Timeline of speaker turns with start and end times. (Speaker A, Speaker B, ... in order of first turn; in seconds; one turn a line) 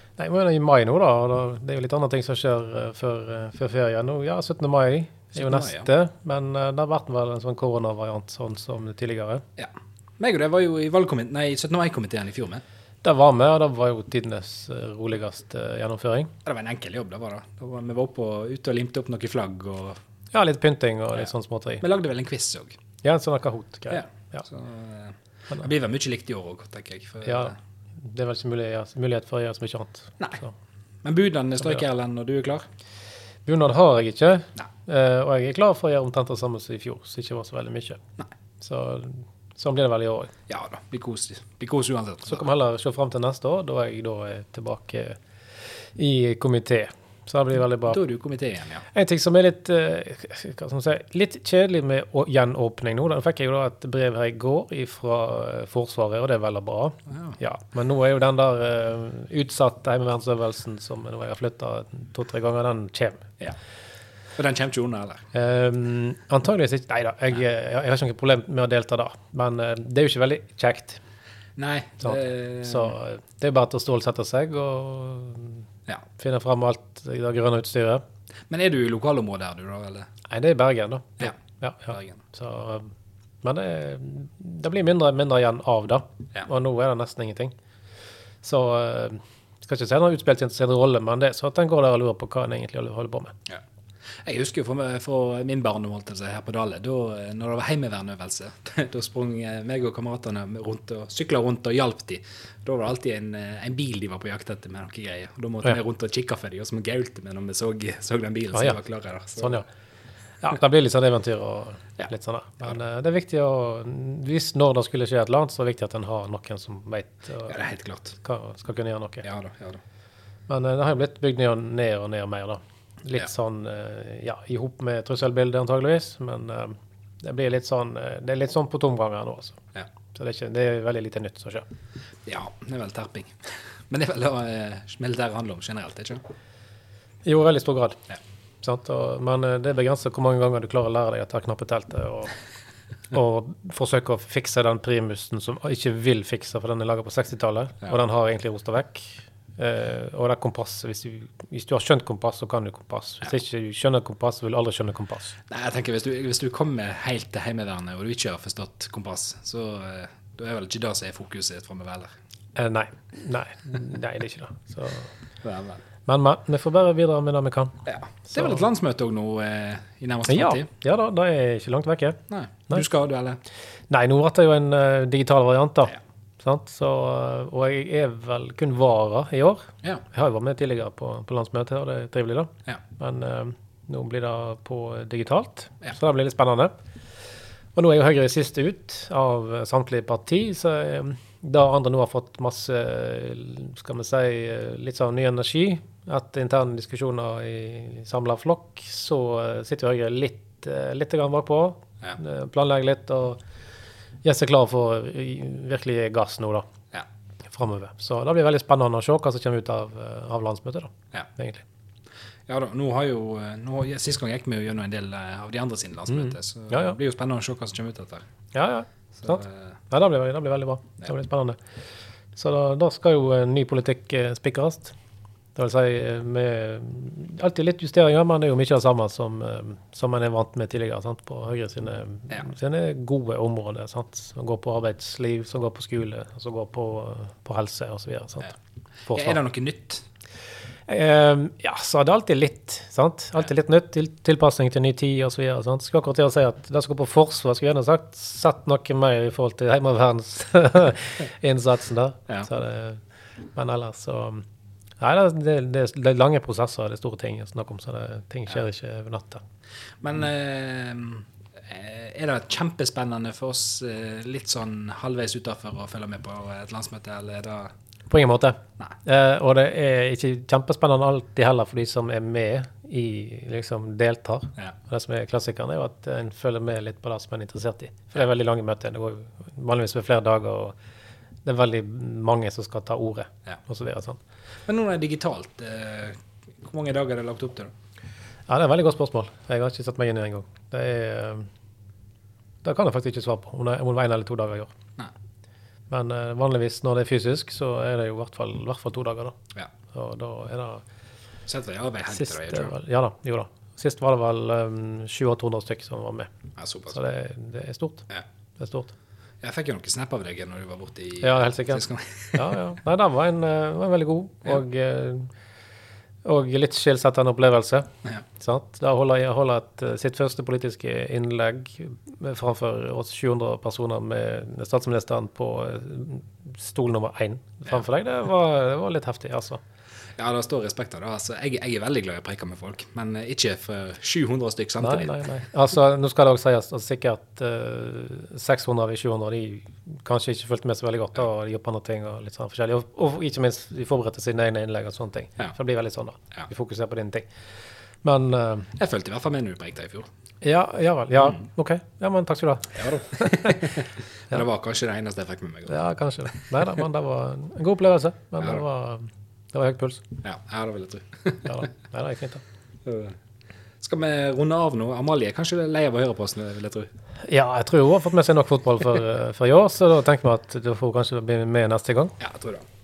Speaker A: 0.2-9.4
Speaker B: 5.3-5.9
Speaker B: 9.6-12.6
Speaker A: 13.0-16.3
Speaker B: 16.4-20.0
Speaker A: 20.3-21.8
Speaker B: 21.1-22.8
Speaker A: 23.0-24.4
Speaker B: 23.9-27.5
Speaker A: 27.2-30.5
Speaker B: 31.0-32.6
Speaker A: 33.5-38.0
Speaker A: 38.6-40.3
Speaker B: 40.5-42.4
Speaker A: 42.2-45.2
Speaker A: 46.0-48.0
Speaker B: 47.9-48.8
Speaker A: 48.9-63.2
Speaker B: 57.1-57.4
Speaker B: 64.3-65.2
Speaker A: 65.3-71.0
Speaker B: 71.6-73.0
Speaker A: 72.0-75.6
Speaker A: 76.2-78.0
Speaker B: 78.5-80.1
Speaker A: 80.3-82.9
Speaker B: 81.9-82.2
Speaker A: 83.4-87.5
Speaker A: 88.4-93.3
Speaker B: 94.2-109.6
Speaker A: 109.4-109.7
Speaker A: 110.4-117.6
Speaker B: 117.5-118.2
Speaker A: 118.2-119.2
Speaker B: 119.2-119.8
Speaker A: 120.5-129.6
Speaker A: 130.1-131.7
Speaker B: 132.2-136.2
Speaker A: 137.2-138.0
Speaker A: 138.6-142.3
Speaker A: 143.1-155.3
Speaker B: 155.5-162.1
Speaker A: 162.6-165.1
Speaker B: 165.4-165.8
Speaker A: 166.1-167.8
Speaker B: 167.8-170.7
Speaker A: 168.3-168.6
Speaker A: 170.3-172.2
Speaker B: 172.3-173.4
Speaker A: 173.9-186.7
Speaker A: 187.7-203.4
Speaker A: 204.2-206.7
Speaker A: 207.5-211.6
Speaker B: 212.5-218.2
Speaker A: 216.1-217.0
Speaker A: 218.5-221.6
Speaker B: 219.2-219.7
Speaker A: 222.3-224.9
Speaker A: 225.6-238.5
Speaker A: 239.1-239.4
Speaker B: 239.1-240.0
Speaker A: 240.9-253.0
Speaker A: 253.5-254.4
Speaker A: 255.0-259.4
Speaker B: 260.0-267.7
Speaker A: 268.1-280.8
Speaker A: 281.4-284.2
Speaker B: 284.7-287.7
Speaker A: 288.5-291.5
Speaker A: 292.6-294.7
Speaker A: 295.9-299.4
Speaker A: 299.9-300.8
Speaker B: 301.4-302.7
Speaker A: 302.1-306.3
Speaker B: 306.6-307.0
Speaker A: 306.9-308.1
Speaker A: 308.6-308.9
Speaker B: 309.4-312.6
Speaker A: 311.2-315.3
Speaker A: 316.2-329.6
Speaker B: 330.1-335.2
Speaker A: 334.8-347.3
Speaker A: 348.0-348.7
Speaker B: 348.8-350.1
Speaker A: 350.4-353.8
Speaker B: 352.8-355.8
Speaker A: 355.7-360.0
Speaker B: 360.2-361.6
Speaker A: 361.4-362.4
Speaker B: 362.8-363.1
Speaker B: 363.8-366.9
Speaker A: 367.3-372.1
Speaker B: 372.2-372.6